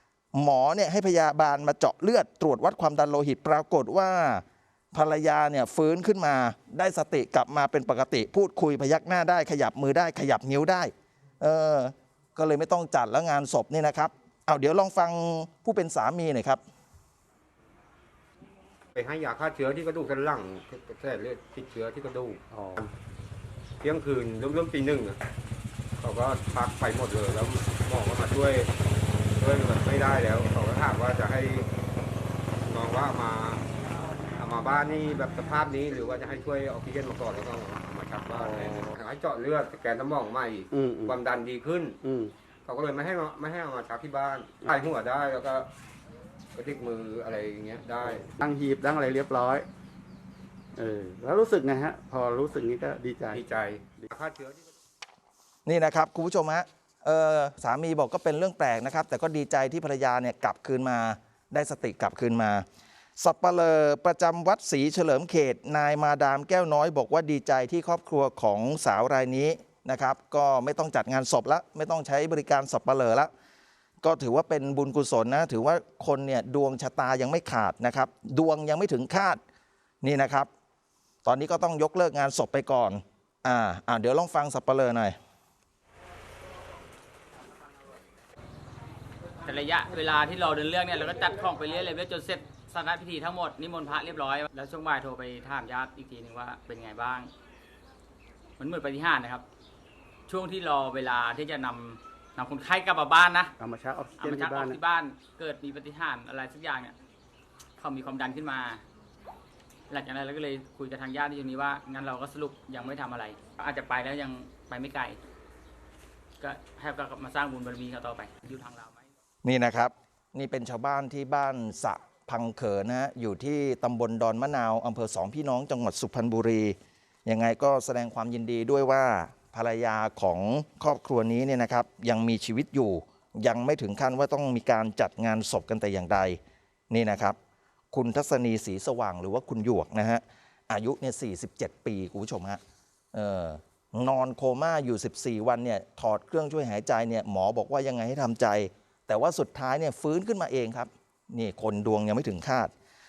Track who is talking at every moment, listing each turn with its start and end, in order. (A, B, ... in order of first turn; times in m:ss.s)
0:00.3-0:16.6 A
0:19.0-0:22.9 B
0:23.8-0:25.2 B
0:26.0-0:28.7 B
0:29.4-0:31.7 B
0:32.7-0:33.6 B
0:34.4-0:42.0 B
0:38.4-0:38.8 C
0:40.7-0:41.2 C
0:42.0-0:42.3 C
0:42.6-0:45.7 B
0:46.6-0:48.3 B
0:48.1-0:49.7 C
0:50.8-0:53.4 C
0:53.3-0:54.6 B
0:55.7-1:02.6 A
1:03.2-1:13.3 A
1:14.0-1:19.4 A
1:20.0-1:20.5 A
1:21.2-1:25.2 A
1:29.4-1:37.3 D
1:38.6-1:39.4 D
1:40.3-1:43.5 D
1:43.6-1:44.8 C
1:44.2-1:47.0 D
1:47.8-1:48.8 D
1:49.9-1:55.2 D
1:56.4-1:59.0 D
1:59.4-2:16.4 A
2:16.9-2:17.4 A
2:17.9-2:22.6 A
2:23.1-2:32.7 A